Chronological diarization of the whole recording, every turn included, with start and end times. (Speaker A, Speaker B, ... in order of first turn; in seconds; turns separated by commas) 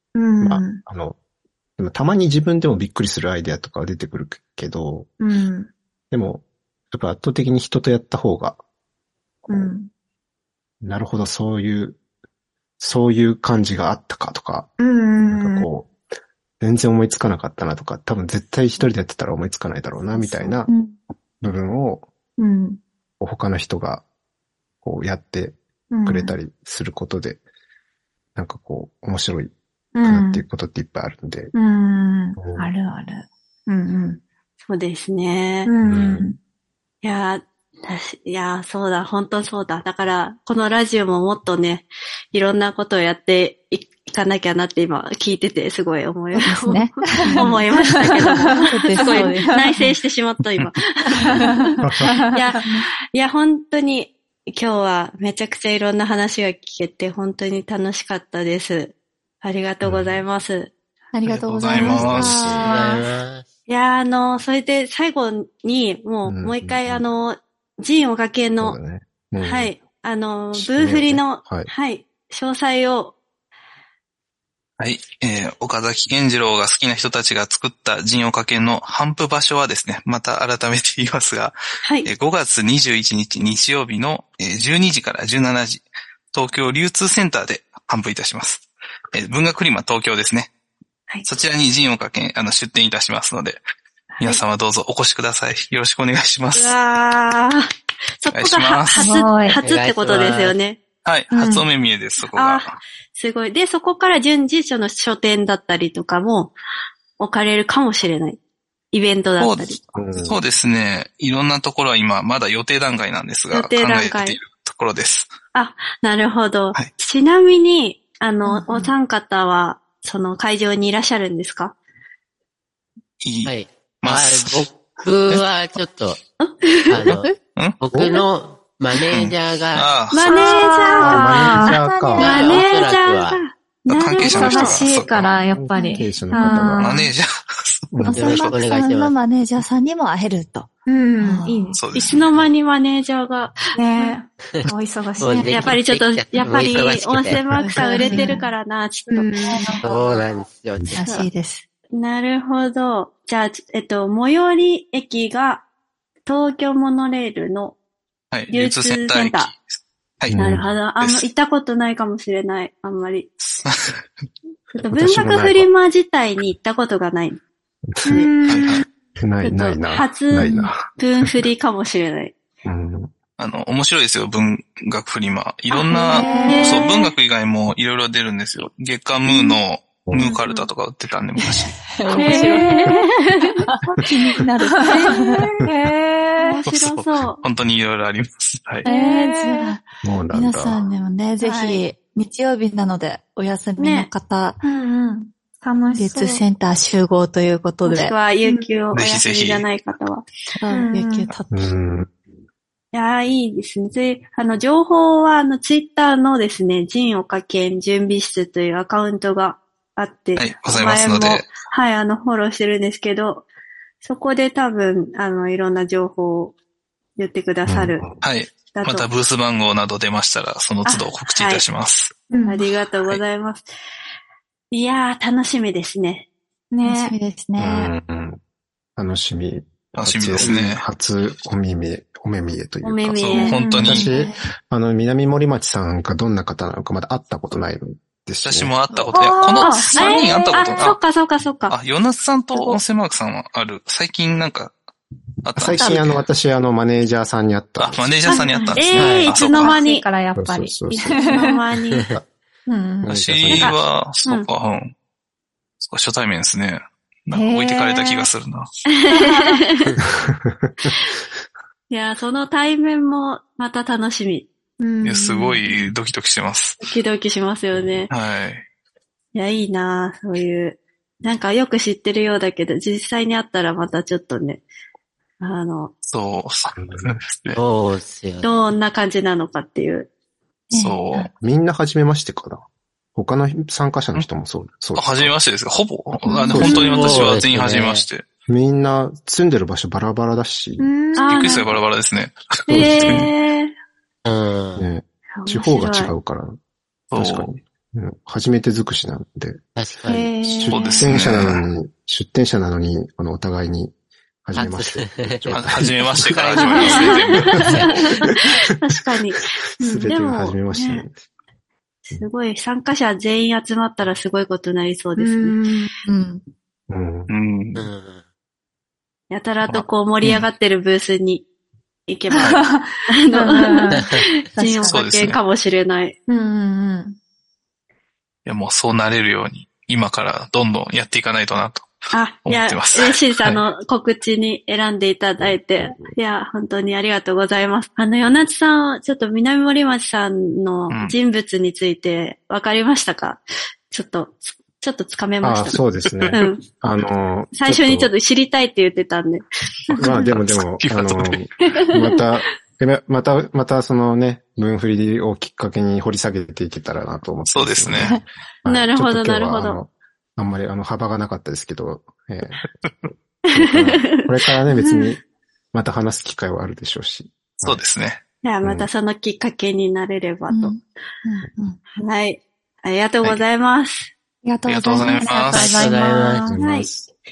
Speaker A: 0.1-0.8, Speaker B: 0.4-1.2, Speaker B: 1.8-5.1, Speaker A: 5.2-5.7, Speaker B: 6.1-8.6, Speaker A: 9.5-9.9, Speaker B: 10.8-12.0, Speaker B: 12.8-14.7, Speaker A: 14.8-15.7, Speaker B: 15.2-15.9, Speaker B: 16.6-20.7, Speaker C: 20.2-20.9, Speaker B: 21.4-22.1, Speaker A: 22.4-22.8, Speaker B: 23.2-24.0, Speaker B: 24.8-27.4, Speaker A: 25.9-26.4, Speaker B: 28.4-31.5, Speaker A: 29.9-30.5, Speaker A: 31.5-34.2, Speaker B: 32.4-32.7, Speaker D: 34.6-35.7, Speaker A: 35.6-36.4, Speaker B: 35.8-36.3, Speaker D: 37.0-51.7, Speaker C: 46.4-49.9, Speaker A: 47.2-47.6, Speaker A: 48.2-49.9, Speaker B: 51.9-52.1, Speaker A: 52.0-52.8, Speaker D: 52.3-60.7, Speaker B: 59.8-60.2, Speaker C: 61.1-62.8, Speaker E: 61.2-62.5, Speaker B: 61.7-62.7, Speaker F: 62.6-63.5, Speaker D: 62.6-63.0, Speaker D: 63.7-68.8, Speaker B: 66.3-67.0, Speaker B: 68.6-69.7, Speaker D: 69.4-73.2, Speaker B: 70.5-71.7, Speaker E: 74.8-90.5, Speaker D: 81.8-82.1, Speaker E: 91.2-93.6, Speaker E: 94.2-96.8, Speaker D: 96.5-97.7, Speaker D: 98.2-100.8, Speaker E: 98.3-99.2, Speaker A: 99.0-99.6, Speaker F: 99.6-100.6, Speaker E: 101.0-102.8, Speaker A: 101.3-101.7, Speaker D: 102.3-106.5, Speaker D: 107.2-108.4, Speaker D: 108.9-109.8, Speaker E: 109.4-115.3, Speaker B: 110.0-110.4, Speaker D: 113.5-114.4, Speaker D: 115.5-121.8, Speaker E: 123.2-124.7, Speaker F: 123.5-126.2, Speaker D: 126.4-127.0, Speaker F: 126.9-127.3, Speaker F: 127.8-129.9, Speaker E: 129.1-130.3, Speaker D: 130.1-134.9, Speaker A: 130.2-132.6, Speaker B: 131.0-132.5, Speaker C: 131.8-132.6, Speaker F: 132.2-133.4, Speaker E: 133.9-135.4, Speaker A: 134.2-137.1, Speaker B: 135.6-137.0, Speaker C: 135.8-136.5, Speaker E: 136.8-138.6, Speaker B: 137.9-138.4, Speaker C: 138.0-141.8, Speaker F: 138.1-139.2, Speaker A: 140.9-141.8, Speaker E: 141.7-142.2, Speaker D: 141.9-143.6, Speaker A: 143.8-145.5, Speaker F: 145.2-147.4, Speaker C: 145.3-145.7, Speaker D: 145.5-150.1, Speaker C: 147.6-148.4, Speaker A: 147.8-148.5, Speaker A: 149.1-149.8, Speaker C: 149.5-149.8, Speaker F: 149.8-150.9, Speaker C: 150.9-151.7, Speaker D: 151.0-151.3, Speaker D: 151.9-155.6, Speaker D: 156.3-157.8, Speaker E: 158.3-160.4, Speaker D: 158.5-159.5, Speaker B: 160.3-160.7, Speaker D: 160.3-163.3, Speaker E: 161.0-161.3, Speaker E: 163.4-164.0, Speaker D: 164.8-167.4, Speaker B: 164.9-165.7, Speaker A: 168.1-168.8, Speaker D: 168.1-168.3, Speaker E: 168.5-168.9, Speaker B: 169.2-170.8, Speaker D: 169.4-172.3, Speaker B: 172.6-173.1, Speaker E: 173.4-182.2, Speaker A: 175.7-176.9, Speaker C: 175.9-176.8, Speaker D: 176.4-177.1, Speaker D: 180.3-180.7, Speaker C: 181.4-183.0, Speaker A: 182.2-183.1, Speaker D: 182.3-183.6, Speaker C: 183.7-185.4, Speaker A: 184.7-186.6, Speaker D: 184.8-185.4, Speaker D: 186.4-187.4, Speaker E: 186.7-188.9, Speaker A: 188.8-189.8, Speaker C: 188.9-194.6, Speaker B: 190.0-190.8, Speaker A: 191.4-191.8, Speaker D: 193.8-194.1, Speaker A: 194.6-196.4, Speaker C: 196.0-198.2, Speaker D: 197.9-200.2, Speaker E: 198.9-199.7, Speaker C: 200.6-201.7, Speaker A: 200.7-201.3, Speaker B: 201.5-202.1, Speaker D: 202.9-213.5, Speaker E: 210.4-211.5, Speaker D: 214.0-216.6, Speaker D: 217.2-218.1, Speaker B: 217.7-218.2, Speaker E: 218.2-222.2, Speaker D: 218.7-219.1, Speaker D: 220.9-221.7, Speaker A: 222.3-222.7, Speaker D: 222.5-223.7, Speaker E: 222.9-223.2, Speaker D: 224.7-226.3, Speaker A: 226.7-227.2, Speaker C: 226.8-227.9, Speaker B: 227.6-228.4, Speaker B: 229.0-238.7, Speaker E: 230.0-230.9, Speaker F: 230.4-230.7, Speaker D: 232.8-233.6, Speaker E: 233.2-234.1, Speaker A: 233.3-234.1, Speaker C: 233.9-234.4, Speaker E: 238.4-241.0, Speaker A: 239.1-240.9, Speaker D: 239.6-241.8, Speaker E: 241.7-244.8, Speaker D: 242.5-242.8, Speaker E: 245.4-246.2, Speaker B: 245.6-249.1, Speaker D: 245.8-246.1, Speaker E: 247.8-249.8, Speaker A: 248.3-248.9, Speaker D: 248.6-250.1, Speaker F: 249.0-249.3, Speaker A: 249.4-251.6, Speaker B: 250.4-251.4, Speaker D: 250.9-252.1, Speaker B: 252.0-252.3, Speaker A: 252.7-253.2, Speaker B: 253.0-253.8, Speaker E: 253.1-254.9, Speaker D: 253.6-254.5, Speaker E: 255.8-258.7, Speaker A: 257.3-258.3, Speaker D: 259.1-259.7, Speaker A: 259.1-259.6, Speaker B: 260.2-260.9, Speaker D: 261.9-264.5, Speaker A: 264.8-265.8, Speaker E: 265.0-266.9, Speaker D: 266.8-268.1, Speaker E: 268.1-268.6, Speaker D: 269.3-274.6, Speaker D: 275.4-275.9, Speaker E: 276.1-277.6, Speaker B: 276.8-277.1, Speaker F: 277.6-278.5, Speaker D: 278.4-280.1, Speaker C: 280.7-281.3, Speaker E: 280.8-281.3, Speaker B: 281.3-285.3, Speaker E: 284.9-288.2, Speaker B: 286.2-287.4, Speaker C: 286.3-286.8, Speaker F: 286.6-288.1, Speaker B: 288.5-290.9, Speaker A: 290.8-291.7, Speaker D: 291.2-291.7, Speaker E: 291.2-293.3, Speaker B: 292.7-293.3, Speaker D: 292.7-293.7, Speaker F: 294.2-294.9, Speaker B: 294.8-296.6, Speaker D: 295.4-296.1, Speaker E: 297.1-297.6, Speaker B: 297.1-299.6, Speaker F: 299.8-300.3, Speaker A: 300.1-301.1, Speaker B: 300.2-306.6, Speaker E: 300.7-301.6, Speaker F: 304.5-305.5, Speaker E: 305.5-307.6, Speaker F: 306.1-308.3, Speaker D: 306.8-311.0, Speaker A: 306.9-307.2, Speaker B: 308.1-308.5, Speaker B: 309.8-311.2, Speaker A: 309.8-310.1, Speaker D: 312.1-315.6, Speaker A: 315.2-315.9, Speaker C: 316.1-316.4, Speaker B: 316.9-317.3, Speaker E: 317.3-317.9, Speaker F: 317.8-318.2, Speaker D: 319.3-321.5, Speaker E: 319.7-320.5, Speaker D: 322.1-326.2, Speaker E: 322.4-322.6, Speaker A: 322.4-325.0, Speaker C: 324.5-324.9, Speaker E: 324.9-325.4, Speaker A: 326.3-327.2, Speaker E: 328.5-331.9, Speaker D: 332.1-345.8, Speaker E: 332.5-333.6, Speaker B: 335.4-336.1, Speaker E: 340.9-341.1, Speaker B: 345.4-348.1, Speaker E: 346.1-346.4, Speaker D: 346.3-346.6, Speaker D: 347.5-350.0, Speaker B: 349.9-362.6, Speaker E: 350.0-351.5, Speaker E: 357.5-358.2, Speaker D: 358.7-359.8, Speaker E: 362.6-363.1, Speaker B: 363.5-367.8, Speaker D: 363.6-364.3, Speaker A: 364.8-365.2, Speaker E: 367.6-368.2, Speaker D: 368.4-370.8, Speaker B: 368.6-368.9, Speaker C: 370.5-371.8, Speaker D: 372.0-374.1, Speaker C: 374.4-376.6, Speaker E: 374.7-375.9, Speaker F: 375.5-376.5, Speaker B: 376.4-377.1, Speaker D: 376.6-376.9